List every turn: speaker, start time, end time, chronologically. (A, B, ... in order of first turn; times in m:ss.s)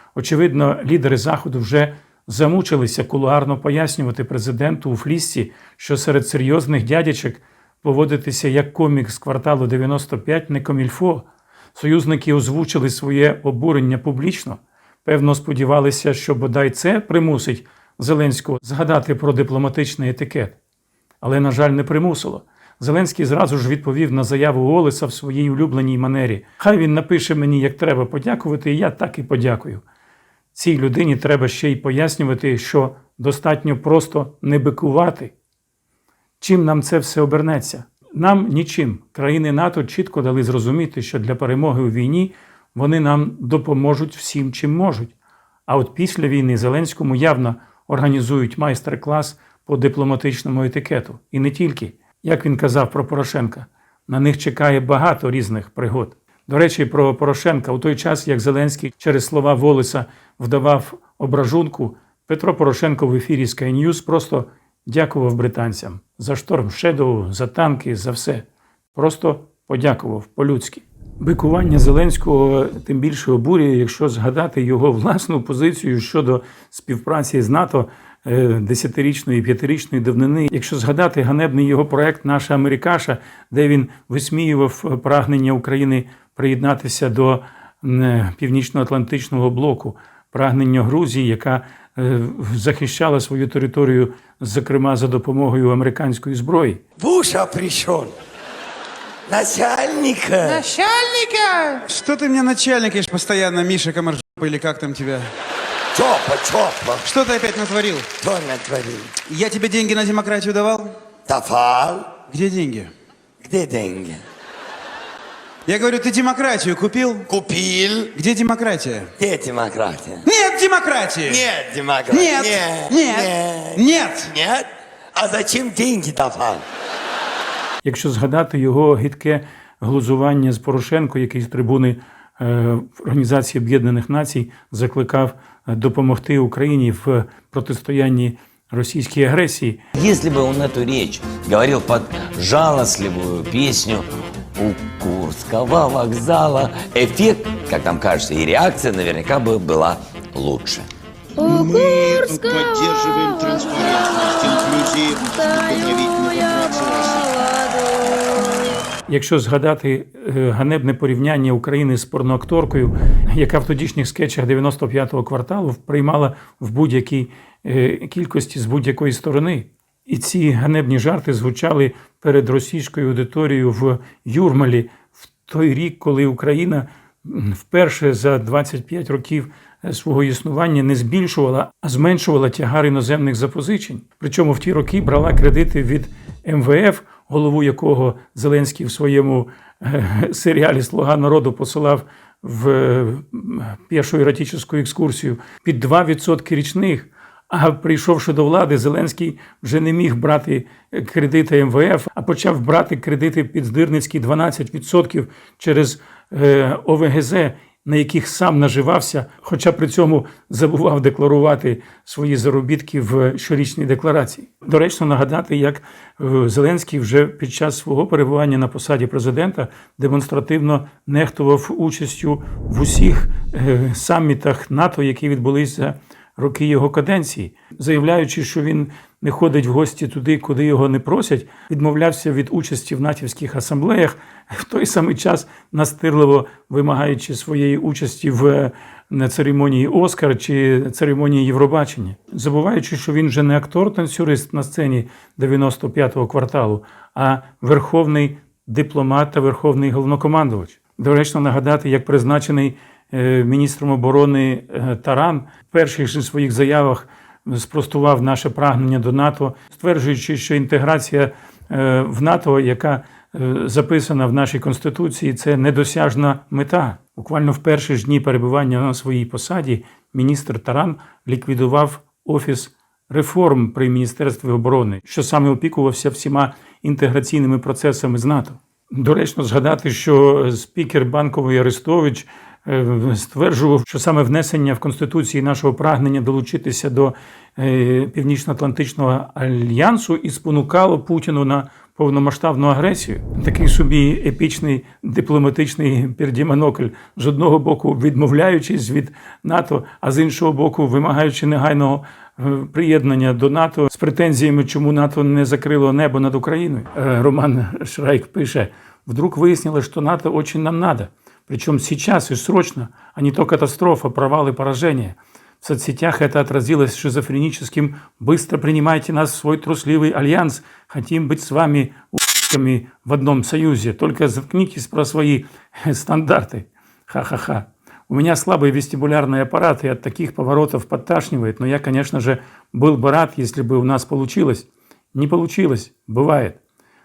0:00.2-0:20.6 A
0:21.2-0:29.8 A
0:30.6-0:35.3 A
0:36.4-0:45.1 A
0:45.7-1:36.8 A
1:37.0-1:38.1 B
1:39.3-1:40.7 B
1:40.4-1:45.3 C
1:45.9-1:47.0 B
1:47.0-1:48.1 C
1:48.2-1:49.2 B
1:49.3-1:50.9 C
1:51.3-1:52.1 B
1:52.3-1:52.9 C
1:53.4-1:54.2 B
1:55.7-1:57.3 C
1:57.3-1:58.1 B
1:58.1-1:59.1 C
1:59.2-2:00.2 B
2:00.2-2:01.4 C
2:01.3-2:06.6 B
2:02.1-2:04.3 C
2:07.8-2:19.8 A
2:20.0-2:30.9 D
2:31.4-2:37.4 E
2:39.1-5:36.6 A